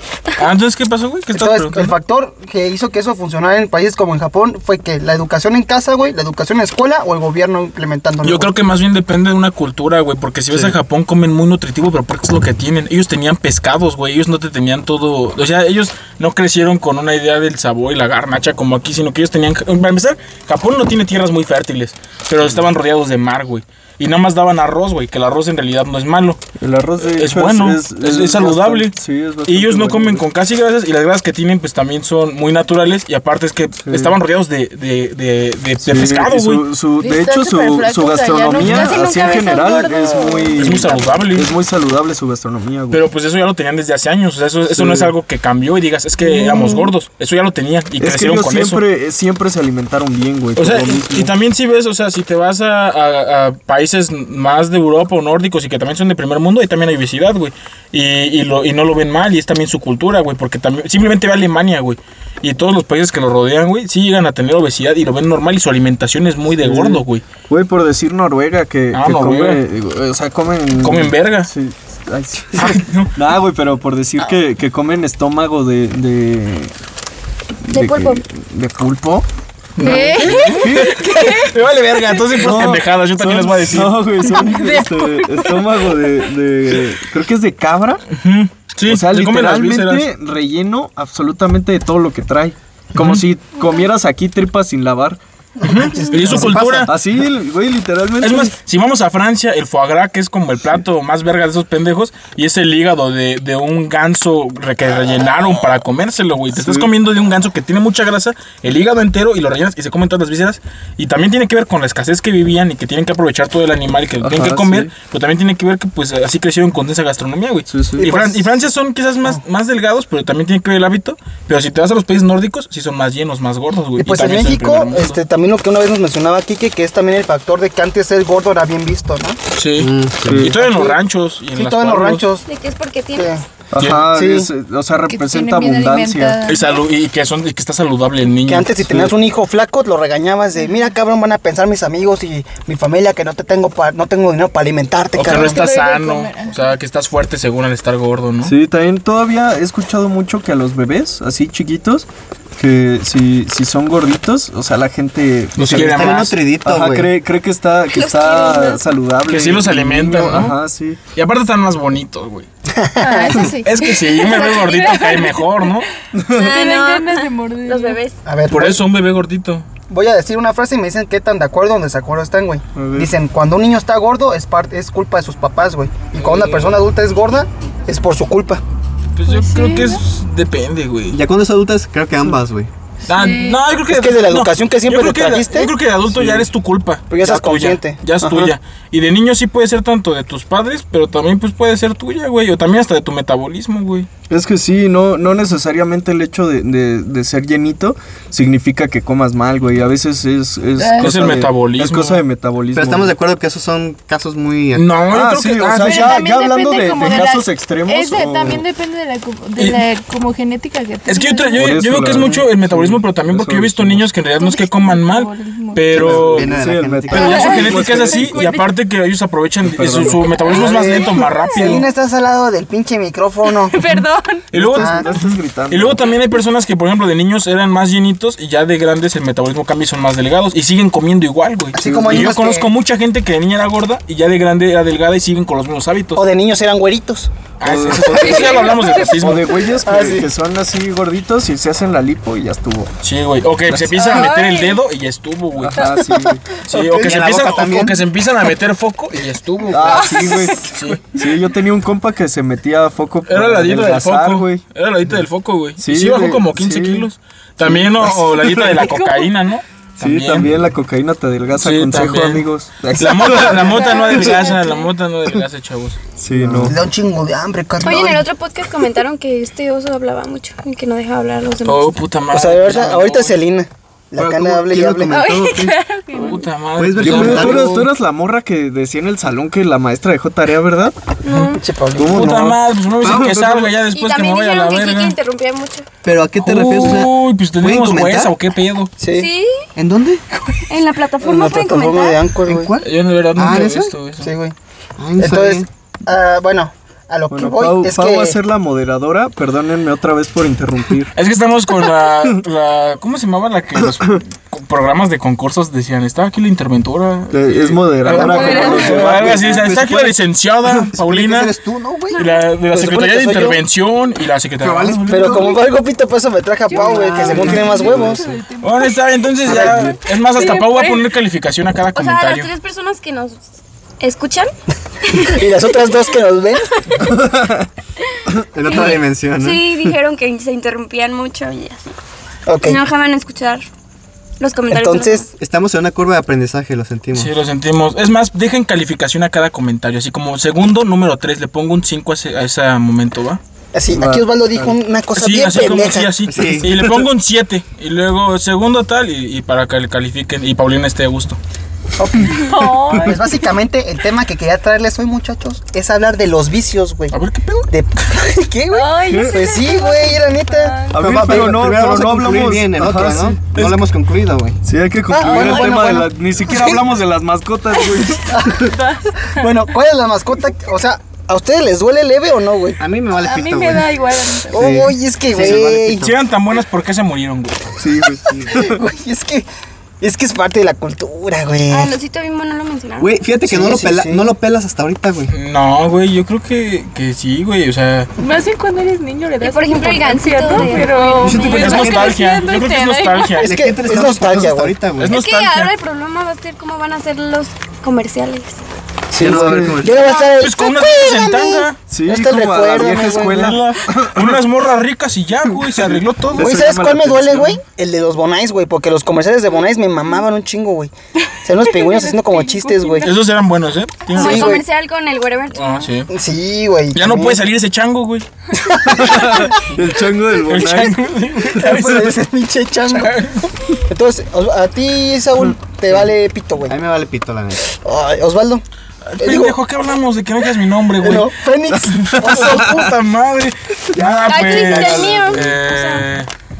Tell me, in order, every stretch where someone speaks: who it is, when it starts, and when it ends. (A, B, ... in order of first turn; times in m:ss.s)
0:00.4-0:02.0 A
0:01.3-0:08.5 B
0:08.2-0:26.4 A
0:10.5-0:10.8 C
0:22.4-0:22.7 C
0:26.6-0:30.3 C
0:27.0-0:36.6 A
0:33.8-0:34.2 C
0:35.8-0:43.0 C
0:37.0-0:40.8 D
0:38.6-0:38.9 A
0:40.6-0:41.5 A
0:42.9-0:48.8 A
0:44.7-0:45.1 C
0:46.2-0:46.9 C
0:48.0-0:51.3 C
0:50.6-1:07.2 A
1:06.6-1:16.7 C
1:08.9-1:09.6 A
1:10.8-1:11.5 A
1:12.6-1:13.1 A
1:17.7-1:18.2 E
1:17.7-1:19.3 C
1:19.8-1:24.2 A
1:19.8-1:21.5 D
1:19.8-1:21.0 C
1:22.3-1:28.0 C
1:24.2-1:26.1 D
1:28.1-1:30.1 A
1:28.8-1:35.2 C
1:33.0-1:33.2 A
1:35.6-1:36.7 B
1:35.6-1:36.9 A
1:36.2-1:36.9 F
1:36.3-1:38.5 C
1:38.2-2:05.2 A
1:46.5-1:46.9 C
1:54.2-1:54.9 C
1:57.7-1:58.1 C
1:58.0-1:58.6 B
2:04.0-2:09.4 B
2:09.5-2:12.2 A
2:09.8-2:10.5 F
2:10.2-2:10.6 C
2:10.6-2:11.0 B
2:11.5-2:12.5 B
2:12.4-2:13.4 E
2:13.2-2:13.4 B
2:13.7-2:16.4 C
2:13.8-2:14.1 A
2:14.1-2:14.5 B
2:15.1-2:16.8 D
2:16.4-2:19.1 A
2:18.4-2:25.6 B
2:25.1-2:28.6 A
2:25.3-2:26.7 D
2:28.4-2:41.0 C
2:35.6-2:36.4 A
2:35.6-2:37.1 F
2:37.9-2:38.8 E
2:39.3-2:40.6 A
2:41.1-2:42.5 A
2:42.7-2:43.5 B
2:43.0-2:45.7 D
2:43.6-2:45.9 A
2:44.2-2:45.4 E
2:46.1-2:46.6 C
2:46.3-2:48.2 E
2:46.4-2:48.0 D
2:48.2-2:48.8 B
2:48.5-2:49.6 A
2:49.9-2:58.6 B
2:52.7-2:53.1 C
2:56.1-2:56.8 A
2:59.1-3:01.2 A
2:59.2-3:00.0 D
3:01.1-3:02.7 F
3:03.0-3:14.1 A
3:03.1-3:03.6 D
3:03.9-3:05.7 B
3:06.1-3:06.4 C
3:07.1-3:08.5 B
3:14.3-3:23.2 C
3:20.8-3:21.4 D
3:21.0-3:22.2 A
3:22.7-3:24.9 F
3:24.7-3:26.2 A
3:25.1-3:28.6 C
3:25.7-3:31.7 D
3:29.6-3:29.8 A
3:31.0-3:36.5 A
3:31.6-3:34.1 C
3:34.4-3:35.9 D
3:35.9-3:37.8 F
3:35.9-3:38.4 C
3:37.1-3:41.9 A
3:37.1-3:38.7 D
3:39.6-3:40.2 C
3:40.4-3:41.5 D
3:40.4-3:43.8 B
3:43.5-3:44.5 D
3:44.5-3:45.0 A
3:44.5-3:46.0 C
3:44.8-3:45.1 B
3:45.7-3:56.2 A
3:51.7-3:52.7 B
3:51.8-3:52.4 C
3:56.2-3:57.3 B
3:57.6-3:59.6 A
3:57.6-4:02.9 C
3:58.1-3:59.3 D
3:59.8-4:00.3 B
4:03.0-4:05.8 A
4:03.7-4:04.2 C
4:04.0-4:04.8 D
4:04.0-4:04.7 E
4:05.6-4:06.5 C
4:05.7-4:06.4 D
4:06.6-4:11.0 A
4:06.7-4:08.0 F
4:09.7-4:14.6 C
4:09.8-4:10.6 D
4:13.2-4:20.6 A
4:15.8-4:17.1 C
4:17.6-4:18.9 C
4:18.8-4:19.3 D
4:20.0-4:24.5 C
4:21.6-4:26.0 A
4:23.4-4:24.8 D
4:26.2-4:26.8 C
4:26.4-4:26.8 F
4:26.7-4:28.2 B
4:27.8-4:32.0 E
4:31.6-4:33.4 A
4:32.3-4:35.3 B
4:34.2-4:35.8 F
4:35.1-4:36.5 D
4:36.1-4:37.7 A
4:36.8-4:37.9 F
4:37.0-4:41.0 C
4:41.2-4:41.6 E
4:41.3-4:45.2 A
4:41.6-4:42.4 B
4:41.9-4:43.7 C
4:43.0-4:43.3 F
4:43.8-4:45.9 E
4:46.0-4:48.3 F
4:46.4-4:48.9 A
4:49.0-4:49.3 B
4:49.1-4:49.6 E
4:49.8-4:50.2 F
4:50.7-4:52.2 E
4:51.2-4:52.8 B
4:52.5-4:54.0 F
4:52.8-4:54.3 A
4:54.2-4:54.5 B
4:55.0-4:55.7 F
4:55.2-4:58.4 B
4:57.3-5:01.1 C
5:01.2-5:11.5 A
5:02.0-5:02.4 C
5:03.8-5:04.2 C
5:07.3-5:09.4 C
5:08.1-5:09.1 D
5:08.2-5:09.5 B
5:09.0-5:10.2 F
5:10.8-5:12.3 F
5:12.1-5:12.5 E
5:12.1-5:15.3 A
5:12.7-5:13.6 B
5:14.6-5:15.6 F
5:15.1-5:18.2 B
5:16.7-5:19.0 D
5:16.7-5:18.2 F
5:17.2-5:18.2 C
5:18.6-5:22.5 A
5:19.4-5:19.9 B
5:20.3-5:21.1 D
5:21.9-5:23.4 E
5:24.0-5:24.5 E
5:25.1-5:26.0 E
5:25.1-5:26.9 B
5:27.0-5:27.7 C
5:28.5-5:29.7 F
5:28.6-5:31.9 E
5:32.5-5:32.8 B
5:32.6-5:33.6 E
5:34.4-5:35.2 E
5:34.7-5:35.2 B
5:35.3-5:37.3 F
5:37.1-5:43.4 A
5:43.7-5:46.1 B
5:43.9-5:44.8 C
5:45.1-5:51.4 A
5:46.2-5:47.1 F
5:52.0-5:57.2 B
5:52.3-5:53.4 D
5:57.1-5:57.7 A
5:57.7-6:01.6 B
5:58.7-6:01.0 D
5:59.1-5:59.4 C
6:00.9-6:03.4 C
6:01.0-6:04.6 F
6:03.5-6:03.8 A
6:04.6-6:08.4 C
6:05.1-6:06.7 B
6:05.2-6:05.7 D
6:07.8-6:09.5 D
6:08.3-6:08.7 B
6:09.3-6:12.8 B
6:12.8-6:13.9 F
6:13.1-6:14.8 D
6:14.5-6:16.2 F
6:14.5-6:16.1 B
6:15.4-6:17.8 A
6:17.8-6:18.8 C
6:18.5-6:19.4 B
6:20.0-6:22.0 B
6:21.7-6:23.1 E
6:23.0-6:25.3 F
6:23.4-6:24.3 B
6:25.3-6:28.1 A
6:28.2-6:33.5 D
6:29.4-6:32.3 E
6:31.2-6:31.7 F
6:31.2-6:33.5 A
6:33.4-6:34.7 B
6:33.4-6:35.2 F
6:35.0-6:35.7 A
6:35.1-6:38.6 E
6:39.1-6:43.6 B
6:39.1-6:40.2 F
6:39.2-6:39.9 C
6:40.1-6:41.8 A
6:41.9-6:44.4 C
6:43.3-6:46.5 A
6:45.7-6:47.6 C
6:46.3-6:50.9 B
6:51.4-6:53.1 B
6:51.7-6:53.2 D
6:53.0-6:54.6 A
6:54.1-6:54.6 B
6:54.1-6:55.9 E
6:55.5-6:56.1 A
6:56.1-6:57.4 B
6:56.9-6:58.2 A
6:58.5-6:59.6 B
6:58.9-7:01.0 C
6:59.0-6:59.5 A
7:00.4-7:02.1 A
7:01.5-7:03.2 B
7:01.6-7:02.1 C
7:02.9-7:03.5 A
7:03.9-7:06.8 B
7:06.7-7:07.6 F
7:07.6-7:08.6 B
7:09.0-7:11.3 A
7:09.2-7:09.6 B
7:11.0-7:12.9 B
7:11.7-7:12.9 C
7:12.2-7:16.3 A
7:14.0-7:15.5 F
7:14.1-7:14.4 C
7:14.3-7:16.0 E